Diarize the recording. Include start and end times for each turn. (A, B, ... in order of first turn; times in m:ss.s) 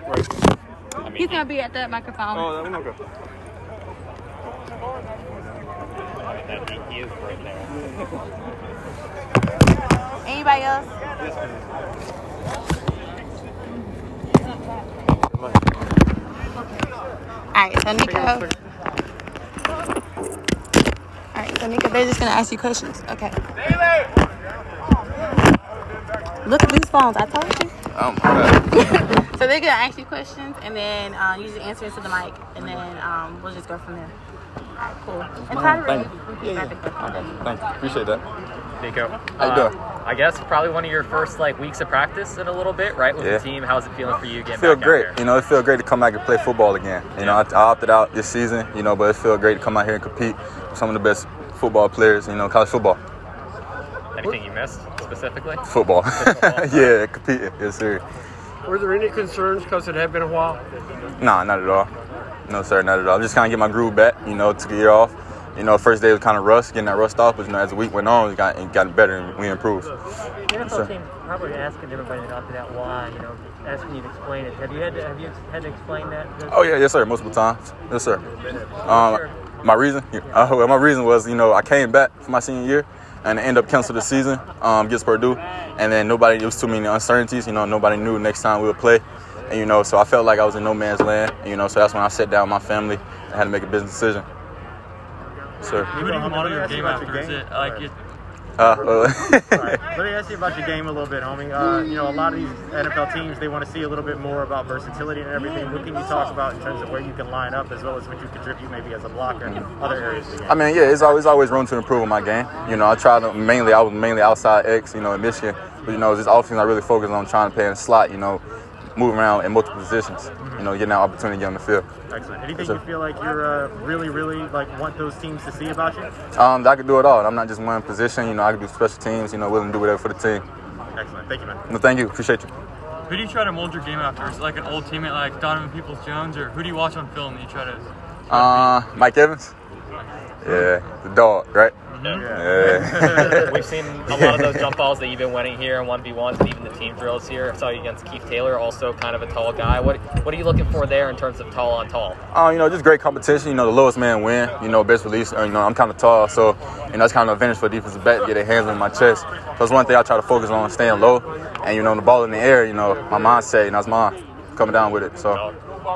0:01.0-0:01.4 A
0:01.1-0:02.6 B
0:06.2-0:07.7 A
0:10.2-0:10.9 B
0:17.5-0:18.5 B
0:21.3-0:23.3 B
0:26.4-0:27.7 B
0:27.9-0:28.7 C
0:28.7-0:34.1 B
0:35.0-0:36.9 B
0:35.4-0:38.2 C
0:38.8-0:45.2 A
0:39.4-0:39.7 C
0:43.2-0:43.4 C
0:44.5-0:53.0 C
0:47.2-0:47.4 A
0:54.1-0:56.9 A
0:55.6-0:58.0 C
0:58.6-1:00.6 D
1:01.2-1:01.9 C
1:02.5-1:09.9 C
1:10.5-1:16.6 E
1:10.6-1:10.9 C
1:16.5-1:18.2 C
1:18.8-1:34.2 C
1:35.6-1:35.9 C
1:35.8-1:37.9 F
1:35.9-1:37.9 G
1:38.6-1:39.8 C
1:38.6-1:50.7 F
1:50.4-1:58.4 C
1:59.0-2:01.8 C
2:00.4-2:00.7 F
2:02.1-2:06.1 F
2:06.3-2:10.4 C
2:10.9-2:11.6 F
2:11.7-2:12.5 C
2:13.1-2:18.8 G
2:18.3-2:19.5 C
2:20.4-2:21.7 C
2:20.4-2:20.7 G
2:21.9-2:22.4 G
2:22.0-2:32.2 A
2:22.1-2:23.4 F
2:22.2-2:24.7 C
2:32.3-2:45.4 C